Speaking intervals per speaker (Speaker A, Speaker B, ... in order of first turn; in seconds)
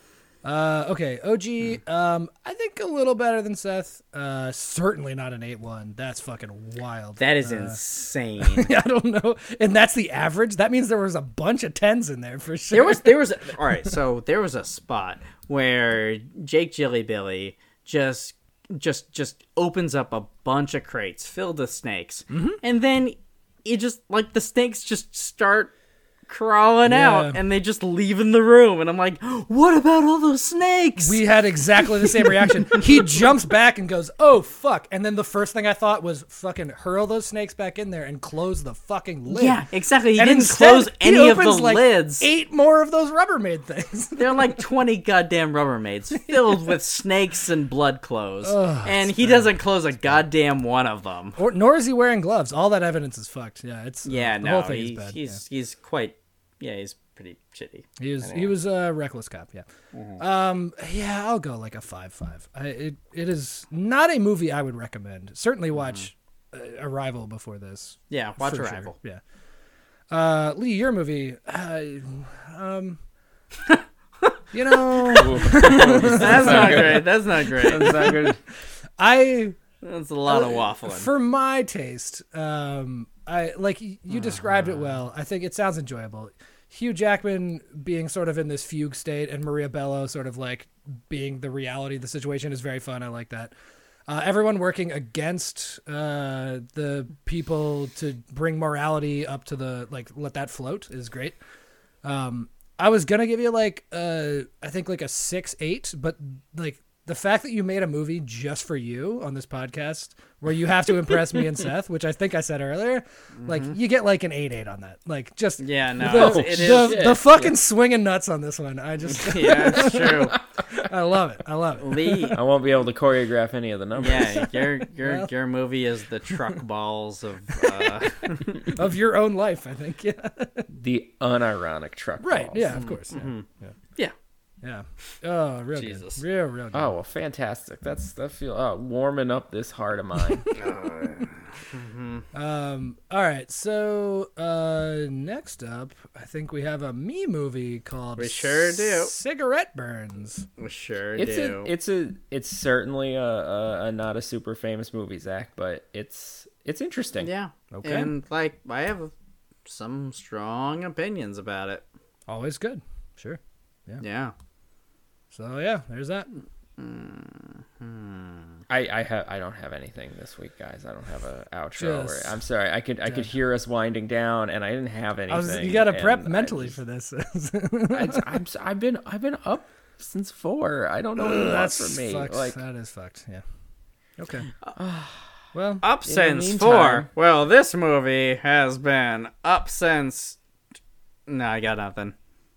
Speaker A: 0.4-7.8, 8.4-13.3, 22.3-22.6, 26.9-27.4, 31.0-39.6, 40.2-44.6, 46.3-46.7, 48.4-49.5, 51.4-55.4, 58.0-59.6, 60.2-69.2, 70.1-73.0, 74.5-77.0, 77.7-78.3, 79.0-79.6, 80.3-93.5, 94.1-101.4, 102.0-122.3, 127.5-128.0, 128.7-130.7, 132.2-133.7, 134.6-136.9, 142.3-150.5, 157.7-158.1, 162.3-164.0, 165.3-166.3, 171.8-172.4, 173.1-173.3, 175.3-178.3, 181.2-183.4, 184.2-184.5, 185.5-185.8
Speaker B: 7.2-8.7, 12.7-25.7, 26.3-31.2, 31.8-32.9, 39.3-42.3, 44.2-51.4, 54.0-58.5, 59.9-60.2, 65.8-66.1, 68.1-69.0, 73.7-78.1, 79.8-81.1, 84.1-84.9, 113.4-113.8, 115.6-117.0, 119.1-120.4, 121.8-122.4, 124.0-128.7, 132.7-134.1, 135.8-136.2, 140.6-142.2, 148.2-149.1, 150.6-151.7, 157.2-159.1, 159.7-161.8, 164.0-164.3, 166.3-168.6, 185.8-190.4, 191.3-192.2
Speaker C: 75.1-77.1, 77.6-78.4, 116.0-117.6, 122.3-124.5, 130.7-132.8, 136.7-140.5, 151.2-157.3, 168.7-176.8, 177.9-182.6, 184.8-185.3, 186.1-187.1